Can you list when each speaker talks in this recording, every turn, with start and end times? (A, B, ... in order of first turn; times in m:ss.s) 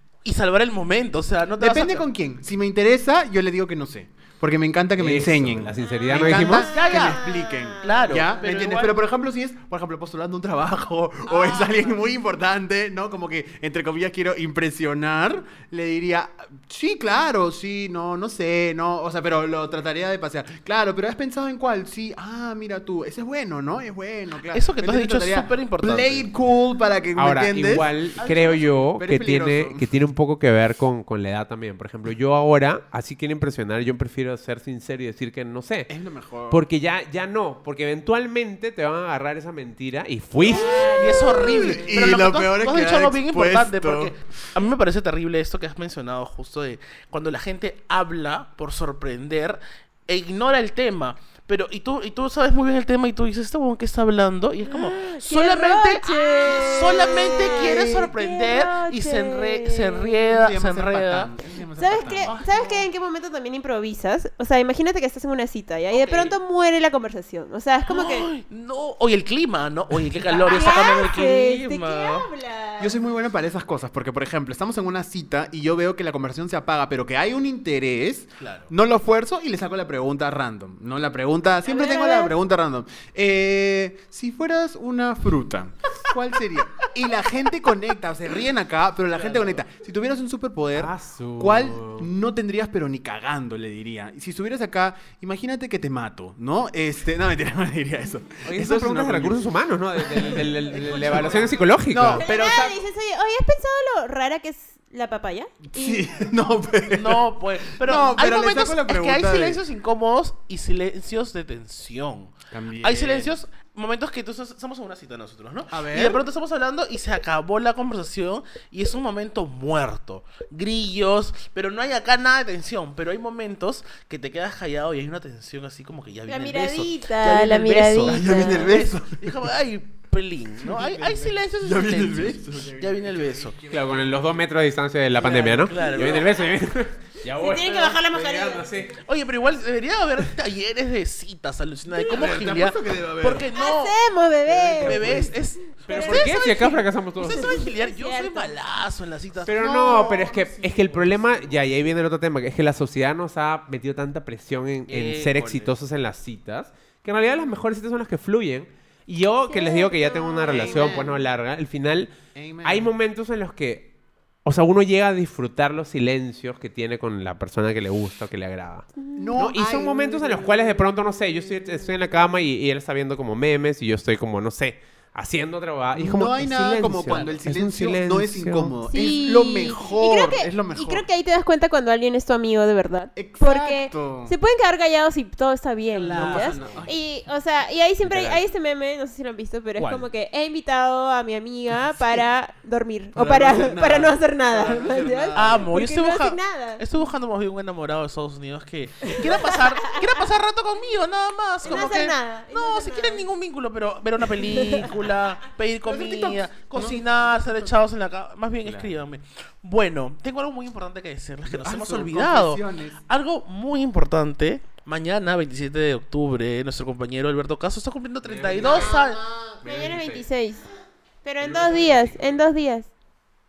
0:00.2-0:02.0 A
0:01.6-0:27.9 B
0:05.0-0:06.7 C
0:05.8-0:08.7 D
0:06.7-0:07.2 A
0:07.8-0:09.0 A
0:24.5-0:26.3 A
0:27.2-0:35.9 C
0:28.2-0:28.8 A
0:29.0-0:29.9 B
0:35.9-0:36.6 B
0:36.5-0:40.9 C
0:40.4-0:41.9 D
0:40.7-1:01.3 A
0:40.9-0:44.1 B
0:54.7-1:00.2 D
1:00.3-1:02.4 B
1:01.8-1:08.3 D
1:02.2-1:02.8 A
1:05.9-1:06.4 A
1:07.9-1:12.3 A
1:10.5-1:12.9 D
1:12.8-1:39.4 B
1:18.4-1:18.7 A
1:21.6-1:22.3 D
1:29.1-1:29.6 A
1:30.7-1:32.1 C
1:38.4-1:42.2 C
1:40.0-1:42.8 B
1:42.2-1:46.1 D
1:45.7-1:49.6 B
1:46.9-2:13.6 A
1:52.5-1:53.4 B
1:55.7-1:56.2 B
2:06.3-2:08.8 D
2:08.0-2:09.3 B
2:10.6-2:14.2 B
2:13.7-2:19.0 C
2:15.1-2:16.4 A
2:17.4-2:18.6 D
2:18.9-2:24.0 A
2:22.0-2:23.5 B
2:23.5-2:25.2 D
2:24.6-2:25.3 B
2:24.8-2:31.6 A
2:25.8-2:27.5 C
2:25.9-2:26.3 D
2:27.3-2:28.5 D
2:29.4-2:43.9 C
2:29.5-2:30.6 B
2:34.9-2:35.7 A
2:39.5-2:41.0 D
2:40.5-2:41.2 B
2:42.3-2:42.9 B
2:44.4-2:58.7 C
2:49.0-2:49.3 D
2:49.2-2:50.5 B
2:55.9-3:01.0 B
2:57.1-2:57.4 A
2:58.9-3:16.8 D
3:03.2-3:04.3 B
3:06.0-3:07.0 B
3:06.0-3:06.6 A
3:06.2-3:06.8 C
3:08.0-3:08.4 C
3:09.8-3:10.0 C
3:13.1-3:15.7 B
3:15.3-3:39.2 A
3:19.0-3:20.0 D
3:21.6-3:23.3 D
3:24.4-3:25.0 D
3:25.9-3:27.8 B
3:31.4-3:33.0 B
3:38.2-3:39.0 C
3:38.6-3:39.6 B
3:39.6-3:40.2 C
3:39.6-3:40.6 D
3:41.2-3:42.9 D
3:41.4-3:42.3 C